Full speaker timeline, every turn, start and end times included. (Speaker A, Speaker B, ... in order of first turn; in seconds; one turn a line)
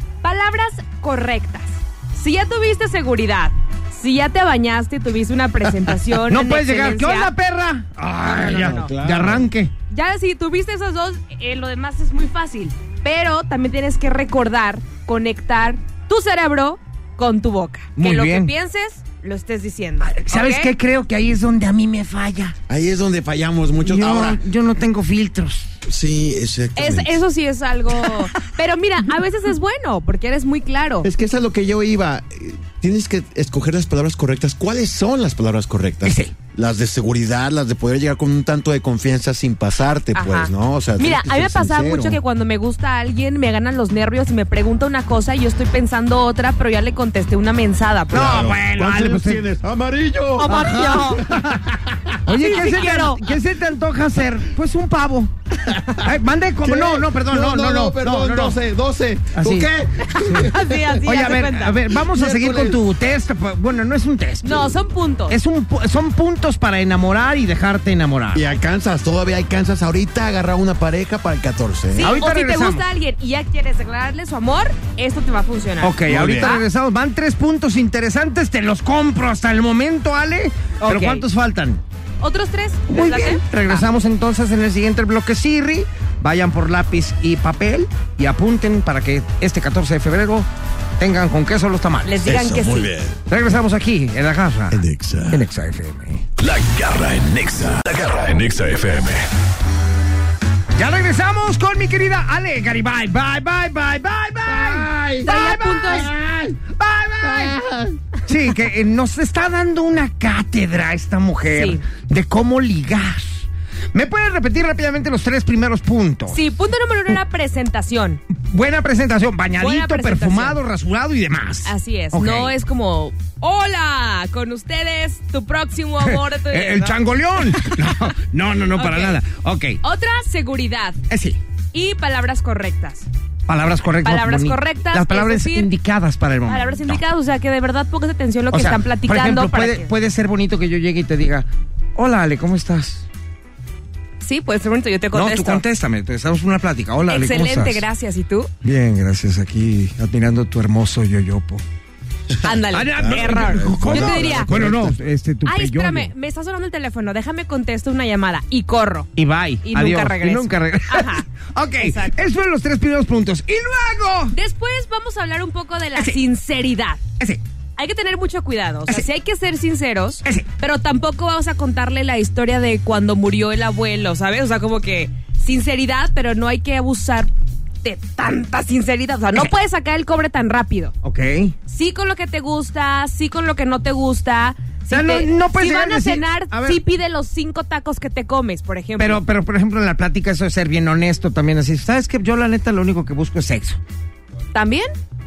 Speaker A: 0.2-7.3
Speaker B: 6.3-9.7
Speaker C: 8.3-9.5
Speaker A: 8.5-8.9
Speaker A: 9.9-20.7
Speaker B: 18.0-18.5
Speaker B: 20.0-22.5
Speaker C: 22.7-24.4
Speaker B: 23.8-25.7
Speaker C: 25.9-27.2
Speaker A: 26.8-31.1
Speaker C: 31.0-42.2
Speaker B: 36.0-36.3
Speaker A: 40.1-48.5
Speaker B: 48.1-49.4
Speaker C: 48.1-52.1
Speaker A: 50.4-51.2
Speaker B: 50.4-51.6
Speaker B: 52.2-55.3
Speaker A: 52.3-53.2
Speaker B: 56.0-58.6
Speaker C: 56.6-60.9
Speaker B: 59.3-59.7
Speaker A: 60.1-61.8
Speaker B: 60.2-60.5
Speaker B: 61.0-68.4
Speaker C: 62.0-62.8
Speaker A: 64.4-65.4
Speaker C: 68.3-72.2
Speaker A: 72.0-76.6
Speaker B: 72.0-72.8
Speaker B: 75.8-81.8
Speaker C: 76.0-76.6
Speaker A: 80.8-81.2
Speaker A: 82.2-83.8
Speaker B: 82.9-90.5
Speaker B: 91.0-92.1
Speaker A: 92.0-92.9
Speaker C: 92.2-93.2
Speaker B: 93.3-96.2
Speaker C: 94.7-95.5
Speaker D: 96.4-99.3
Speaker B: 100.8-107.6
Speaker C: 104.5-105.4
Speaker A: 105.2-106.1
Speaker C: 106.0-106.6
Speaker C: 107.2-108.0
Speaker B: 108.2-116.4
Speaker A: 111.5-111.8
Speaker A: 116.3-118.2
Speaker B: 118.4-122.5
Speaker A: 119.6-120.6
Speaker A: 121.7-127.0
Speaker B: 126.0-129.8
Speaker A: 128.7-129.2
Speaker A: 129.8-131.0
Speaker B: 131.1-131.4
Speaker A: 131.7-133.1
Speaker B: 133.5-137.0
Speaker A: 134.0-135.7
Speaker A: 136.5-139.9
Speaker B: 138.5-143.0
Speaker A: 144.2-145.6
Speaker B: 145.1-147.8
Speaker A: 147.1-148.5
Speaker B: 148.6-151.6
Speaker A: 152.4-154.5
Speaker B: 152.7-156.1
Speaker C: 152.9-155.0
Speaker A: 155.4-159.1
Speaker B: 159.2-164.3
Speaker A: 159.6-161.2
Speaker A: 161.8-162.2
Speaker A: 164.3-167.0
Speaker A: 167.8-177.3
Speaker A: 177.8-180.9
Speaker B: 181.0-181.5
Speaker A: 181.7-189.2
Speaker B: 184.9-186.8
Speaker B: 189.0-193.8
Speaker A: 194.5-194.9